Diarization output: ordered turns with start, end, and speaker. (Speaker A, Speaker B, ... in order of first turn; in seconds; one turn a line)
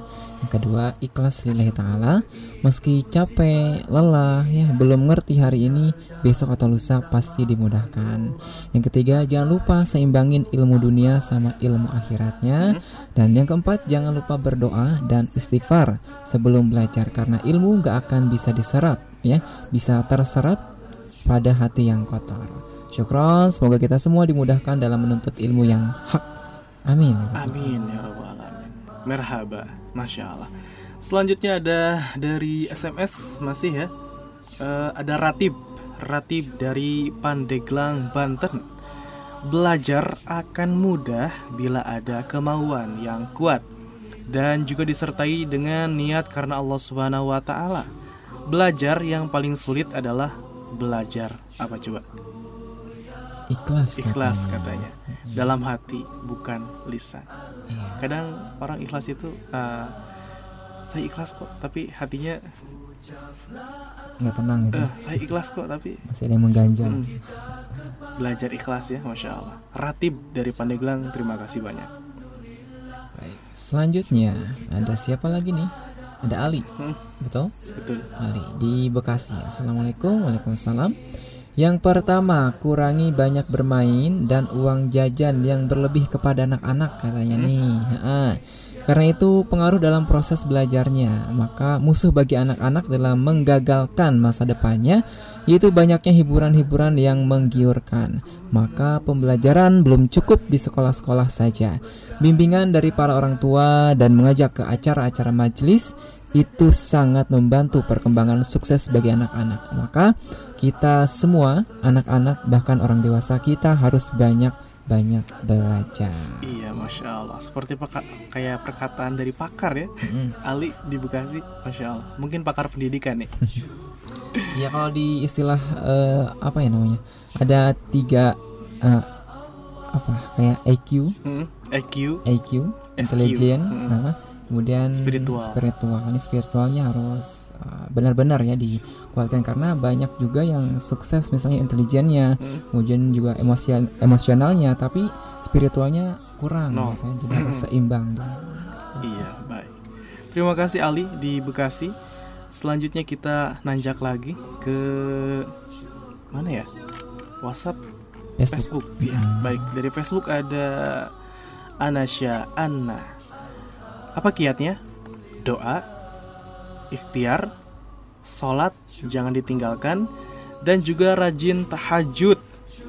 Speaker A: 0.4-20.6
Speaker A: 21.3-26.3
Speaker A: 26.9-28.0
Speaker B: 27.3-30.5
Speaker B: 31.0-33.9
Speaker B: 34.6-38.6
Speaker B: 39.5-43.6
Speaker B: 44.3-47.9
Speaker B: 48.5-52.0
Speaker A: 53.5-55.5
Speaker B: 54.0-57.2
Speaker A: 57.7-58.0
Speaker B: 58.0-59.9
Speaker B: 60.9-62.4
Speaker A: 64.2-65.3
Speaker B: 64.7-66.0
Speaker A: 66.0-67.8
Speaker B: 66.8-67.1
Speaker B: 68.2-71.9
Speaker A: 73.2-75.7
Speaker A: 76.2-76.7
Speaker A: 77.2-77.5
Speaker B: 77.7-78.1
Speaker A: 78.2-80.9
Speaker A: 81.6-116.9
Speaker B: 116.4-119.9
Speaker A: 120.0-120.3
Speaker B: 120.4-123.3
Speaker A: 124.5-129.1
Speaker A: 129.9-131.1
Speaker B: 131.2-132.2
Speaker A: 132.2-149.2
Speaker B: 133.0-134.0
Speaker B: 134.9-135.6
Speaker B: 142.4-142.6
Speaker B: 146.7-147.7
Speaker B: 149.0-149.7
Speaker B: 150.3-151.9
Speaker B: 152.5-155.5
Speaker B: 156.3-156.7
Speaker B: 157.4-157.8
Speaker A: 158.4-159.7
Speaker B: 158.5-161.1
Speaker B: 161.8-163.1
Speaker B: 164.2-164.8
Speaker B: 165.4-165.8
Speaker B: 166.9-167.5
Speaker B: 168.2-170.0
Speaker B: 170.6-172.4